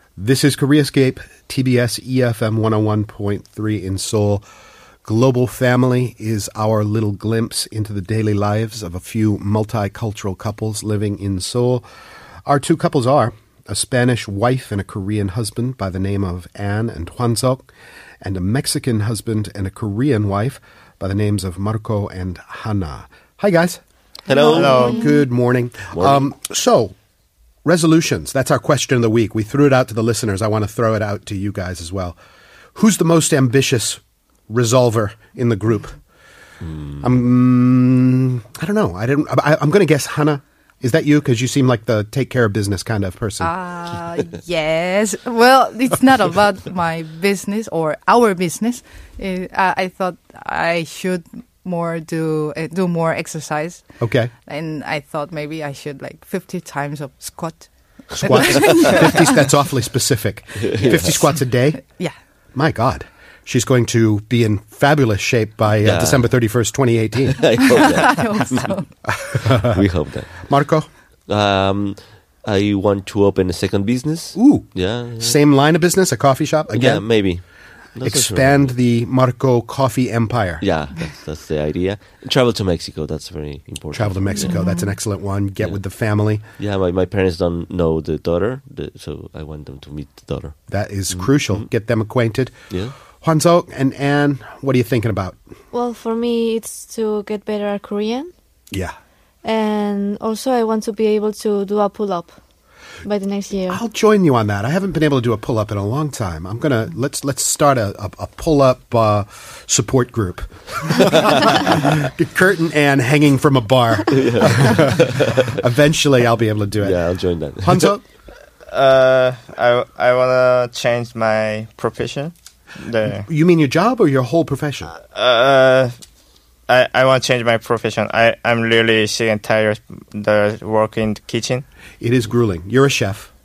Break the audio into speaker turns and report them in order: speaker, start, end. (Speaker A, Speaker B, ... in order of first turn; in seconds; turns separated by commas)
Speaker A: 0.2-4.4, Speaker A: 5.0-11.8, Speaker A: 12.4-17.7, Speaker A: 18.2-23.8, Speaker B: 24.3-24.9, Speaker C: 24.3-25.0, Speaker D: 24.4-25.0, Speaker E: 24.6-25.1, Speaker A: 24.6-26.9, Speaker B: 25.9-26.2, Speaker A: 27.6-32.2, Speaker A: 32.7-36.0, Speaker B: 36.6-37.0, Speaker A: 37.0-43.5, Speaker C: 43.4-53.9, Speaker A: 54.0-54.3, Speaker C: 54.5-59.5, Speaker A: 58.1-61.8, Speaker B: 60.6-61.2, Speaker C: 61.8-62.1, Speaker A: 62.5-67.6, Speaker B: 65.8-66.3, Speaker B: 67.3-68.7, Speaker C: 67.8-68.9, Speaker A: 69.2-69.8, Speaker B: 69.4-70.5, Speaker A: 70.4-70.9, Speaker B: 71.3-75.4, Speaker A: 74.3-77.1, Speaker B: 76.7-77.4, Speaker B: 78.0-78.7, Speaker A: 78.0-80.7, Speaker B: 80.6-84.7, Speaker A: 83.9-86.4, Speaker C: 84.4-84.9, Speaker B: 86.6-90.6, Speaker A: 90.7-92.5, Speaker B: 91.1-91.6, Speaker A: 93.2-95.4, Speaker E: 95.7-98.3, Speaker E: 99.4-102.3, Speaker E: 103.0-103.8, Speaker A: 103.7-117.0, Speaker B: 114.1-115.6, Speaker B: 116.8-117.9, Speaker A: 117.6-118.0, Speaker D: 118.7-123.3, Speaker A: 123.3-124.9, Speaker D: 125.0-126.0, Speaker D: 126.7-131.6, Speaker A: 132.0-133.3